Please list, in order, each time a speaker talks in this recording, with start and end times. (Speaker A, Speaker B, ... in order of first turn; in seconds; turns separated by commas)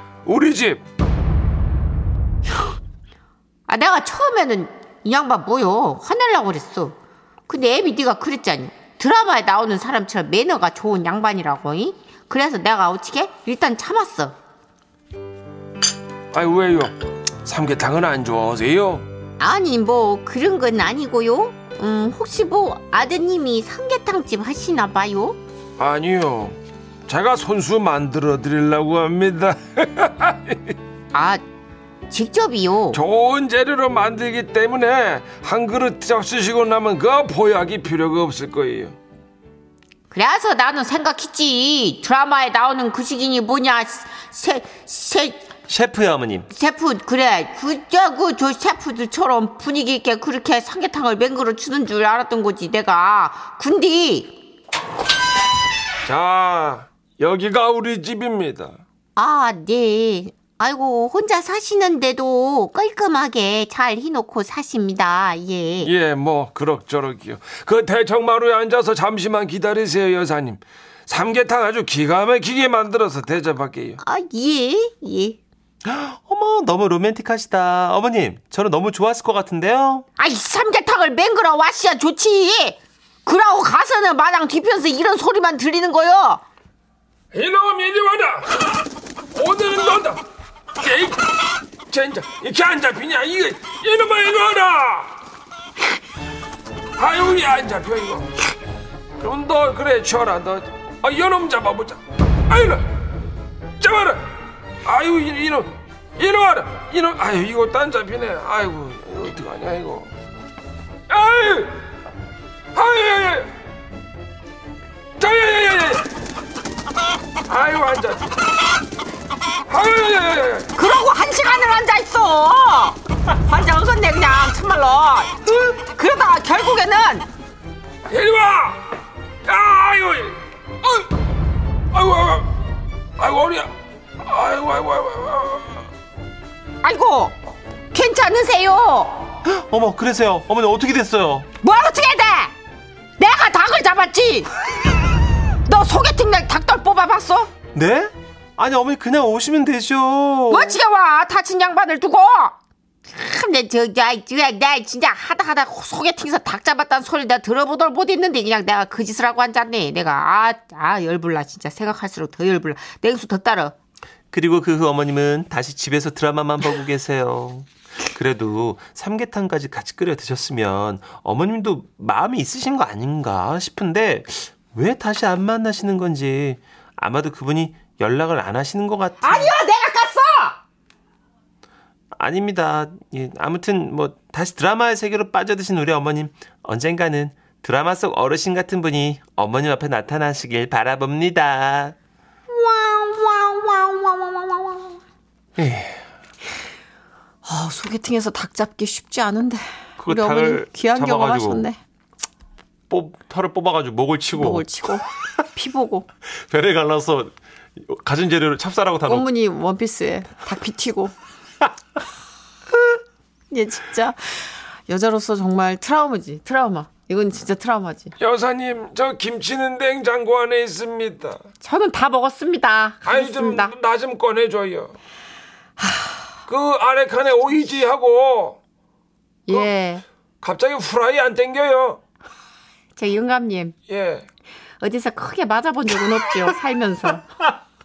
Speaker A: 0.3-0.8, Speaker B: 3.7-7.0, Speaker B: 7.5-14.3, Speaker A: 16.3-16.9, Speaker A: 17.4-19.1, Speaker B: 19.4-25.4, Speaker A: 25.8-26.6, Speaker A: 27.1-30.7, Speaker B: 31.1-31.4, Speaker B: 32.1-33.0, Speaker A: 32.9-38.9, Speaker B: 40.1-45.4, Speaker C: 45.7-46.5, Speaker B: 46.5-54.3, Speaker A: 56.1-58.8, Speaker B: 59.2-65.9, Speaker A: 65.8-74.0, Speaker B: 74.0-75.4, Speaker C: 75.8-80.1, Speaker B: 80.2-86.4, Speaker A: 87.3-88.6, Speaker A: 89.3-90.2, Speaker A: 90.8-95.1, Speaker A: 97.0-98.3, Speaker A: 99.2-102.9, Speaker A: 103.8-104.2, Speaker A: 104.8-110.1, Speaker A: 111.1-111.7, Speaker A: 112.7-113.5, Speaker A: 115.2-116.1, Speaker A: 117.5-118.3, Speaker A: 119.7-120.7, Speaker B: 120.8-127.3, Speaker A: 128.1-128.8, Speaker A: 129.4-131.1, Speaker A: 131.9-132.5, Speaker A: 133.2-135.9, Speaker B: 136.8-137.3, Speaker B: 137.9-139.2, Speaker C: 139.4-141.5, Speaker B: 141.6-142.5, Speaker B: 143.2-144.5, Speaker B: 145.7-147.5, Speaker C: 147.7-150.8, Speaker B: 150.5-152.6, Speaker B: 153.1-163.7, Speaker C: 164.3-179.5, Speaker B: 179.2-180.6, Speaker C: 182.2-191.9, Speaker B: 192.5-195.0, Speaker C: 195.6-196.0, Speaker B: 197.4-201.8, Speaker C: 200.0-201.7, Speaker C: 202.9-204.7, Speaker B: 204.3-206.1, Speaker C: 206.3-209.3, Speaker B: 209.1-211.1, Speaker B: 213.5-218.2, Speaker A: 218.2-221.4, Speaker B: 221.6-223.7, Speaker A: 223.1-224.9, Speaker B: 225.8-226.3, Speaker A: 226.5-228.6, Speaker B: 229.5-230.0, Speaker A: 230.4-232.0, Speaker B: 233.0-233.8, Speaker A: 233.9-234.2, Speaker B: 234.8-237.3